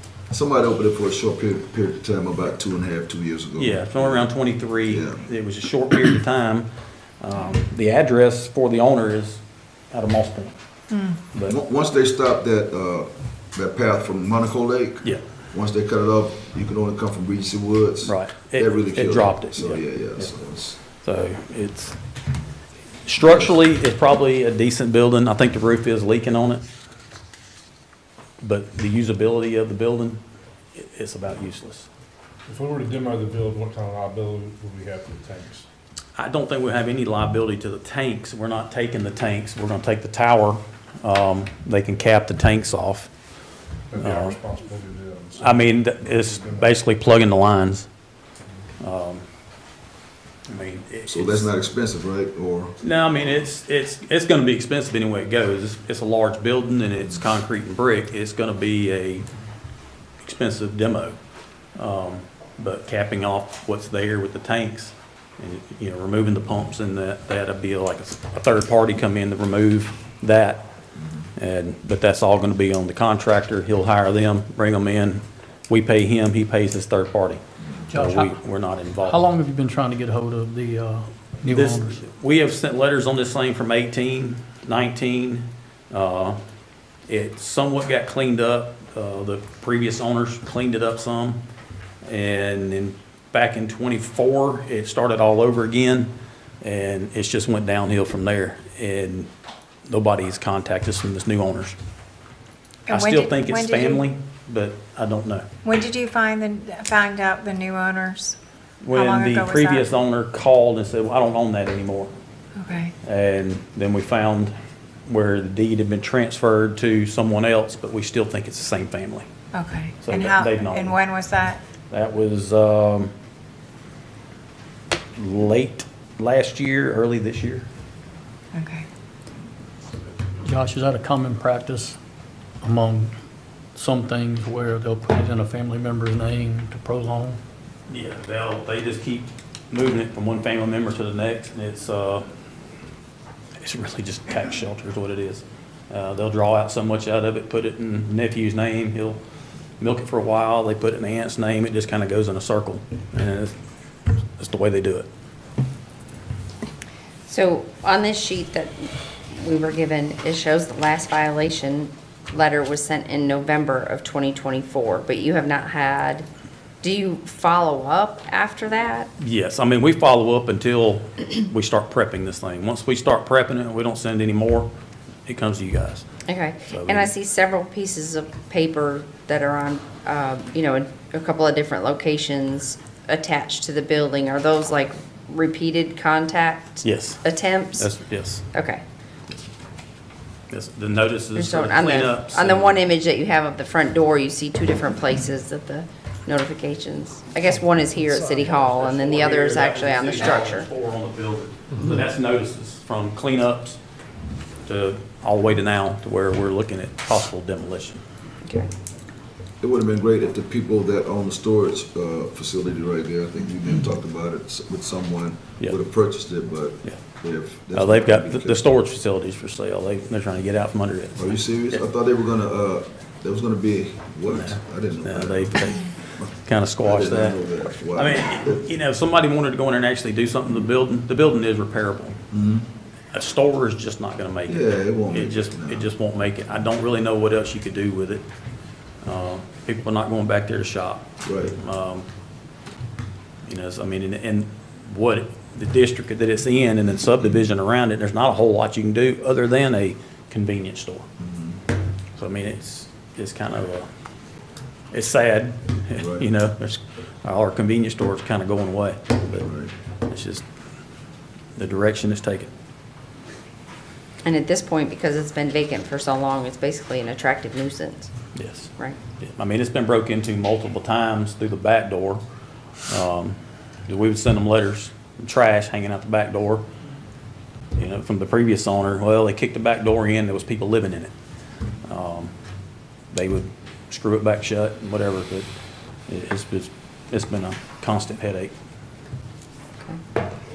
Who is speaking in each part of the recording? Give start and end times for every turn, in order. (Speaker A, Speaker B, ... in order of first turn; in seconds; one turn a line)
Speaker A: 0.3-4.3
Speaker B: 3.6-6.7
Speaker A: 4.8-5.2
Speaker B: 7.2-10.5
Speaker C: 10.9-11.2
Speaker A: 11.4-20.8
Speaker B: 18.0-20.3
Speaker B: 21.0-22.0
Speaker B: 23.1-26.7
Speaker B: 28.4-30.2
Speaker B: 30.7-31.9
Speaker D: 32.5-35.6
Speaker B: 36.2-43.1
Speaker D: 43.9-46.8
Speaker B: 44.0-44.4
Speaker B: 45.4-47.9
Speaker B: 48.8-49.2
Speaker B: 50.5-51.5
Speaker A: 51.1-52.8
Speaker B: 52.8-59.2
Speaker B: 60.2-61.2
Speaker B: 61.8-70.7
Speaker B: 71.4-77.4
Speaker E: 77.9-78.4
Speaker B: 77.9-79.2
Speaker E: 79.0-82.0
Speaker B: 81.5-86.4
Speaker B: 87.1-91.4
Speaker B: 92.0-99.3
Speaker B: 99.9-101.8
Speaker C: 102.9-104.0
Speaker B: 102.9-105.5
Speaker C: 105.6-108.3
Speaker B: 108.8-112.1
Speaker C: 108.9-109.8
Speaker C: 112.5-112.9
Speaker B: 113.0-114.5
Speaker B: 115.1-119.3
Speaker C: 119.5-121.6
Speaker B: 120.0-121.0
Speaker B: 121.9-123.1
Speaker B: 125.2-127.7
Speaker C: 128.5-128.8
Speaker E: 130.4-132.0
Speaker E: 132.6-133.1
Speaker E: 133.7-137.4
Speaker B: 137.9-142.3
Speaker B: 143.6-149.2
Speaker B: 149.8-153.5
Speaker B: 154.4-155.1
Speaker F: 157.3-166.2
Speaker F: 166.8-169.1
Speaker B: 169.2-174.7
Speaker B: 175.2-176.1
Speaker F: 176.3-187.9
Speaker B: 176.7-177.1
Speaker B: 186.8-188.4
Speaker F: 188.5-188.8
Speaker B: 190.5-192.8
Speaker F: 191.3-200.7
Speaker B: 198.2-203.8
Speaker B: 204.7-208.0
Speaker A: 209.6-218.7
Speaker B: 217.7-221.4
Speaker A: 221.2-228.6
Speaker B: 224.2-225.9
Speaker B: 226.4-227.4
Speaker B: 227.9-232.2
Speaker A: 232.3-232.7
Speaker B: 233.1-238.2
Speaker A: 234.5-235.9
Speaker B: 239.0-242.1
Speaker A: 241.2-241.5
Speaker B: 243.4-251.1
Speaker A: 251.2-251.6
Speaker B: 252.2-253.9
Speaker B: 254.9-259.4
Speaker A: 256.0-256.2
Speaker A: 259.3-259.7
Speaker B: 260.0-260.4
Speaker B: 261.6-262.5
Speaker F: 264.2-268.1
Speaker B: 268.3-272.2
Speaker B: 272.9-276.7
Speaker B: 277.8-281.1
Speaker B: 281.8-282.3
Speaker B: 283.1-285.5
Speaker B: 286.1-288.5